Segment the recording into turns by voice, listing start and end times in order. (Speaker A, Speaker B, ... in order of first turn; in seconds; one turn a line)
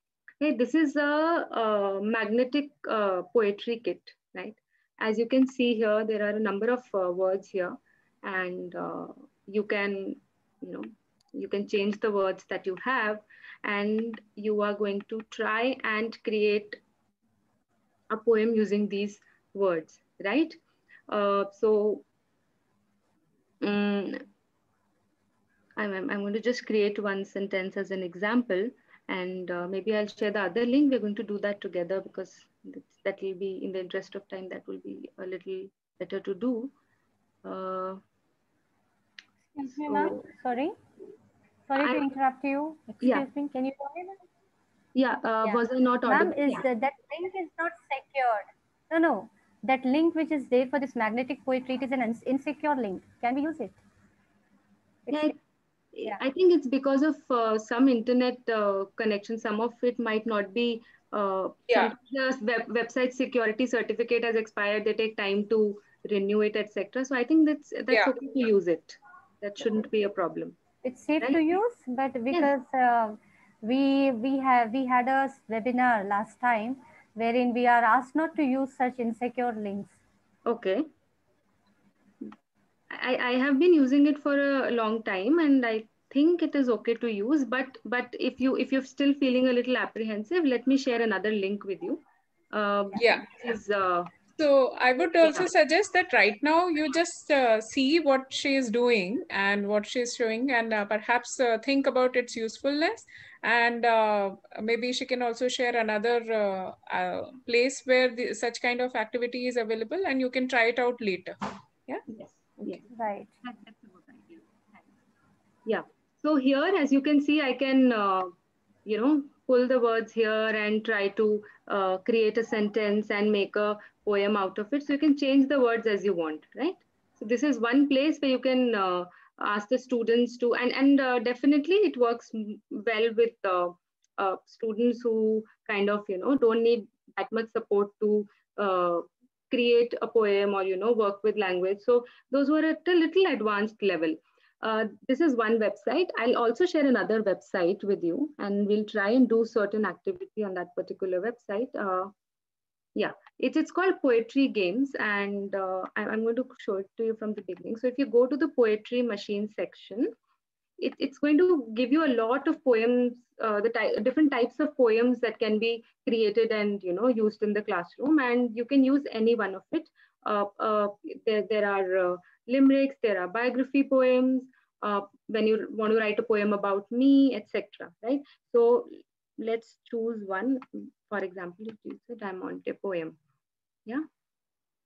Speaker A: 0.4-16.8
Speaker A: 18.1-22.0
Speaker A: 23.6-24.2
Speaker A: 25.8-36.7
Speaker A: 37.4-38.0
Speaker B: 39.5-40.7
Speaker A: 39.9-40.2
Speaker B: 41.7-44.2
Speaker A: 41.8-42.0
Speaker A: 44.9-46.6
Speaker B: 45.4-53.8
Speaker B: 55.1-55.3
Speaker A: 55.1-55.3
Speaker A: 55.9-70.5
Speaker B: 70.8-79.9
Speaker A: 71.2-71.5
Speaker A: 80.5-80.8
Speaker A: 82.9-94.1
Speaker C: 93.0-93.3
Speaker C: 94.4-111.3
Speaker A: 95.2-95.5
Speaker A: 112.1-112.8
Speaker B: 112.9-113.3
Speaker A: 113.4-114.5
Speaker A: 115.7-118.3
Speaker A: 118.8-152.1
Speaker A: 152.9-160.1
Speaker A: 160.8-183.2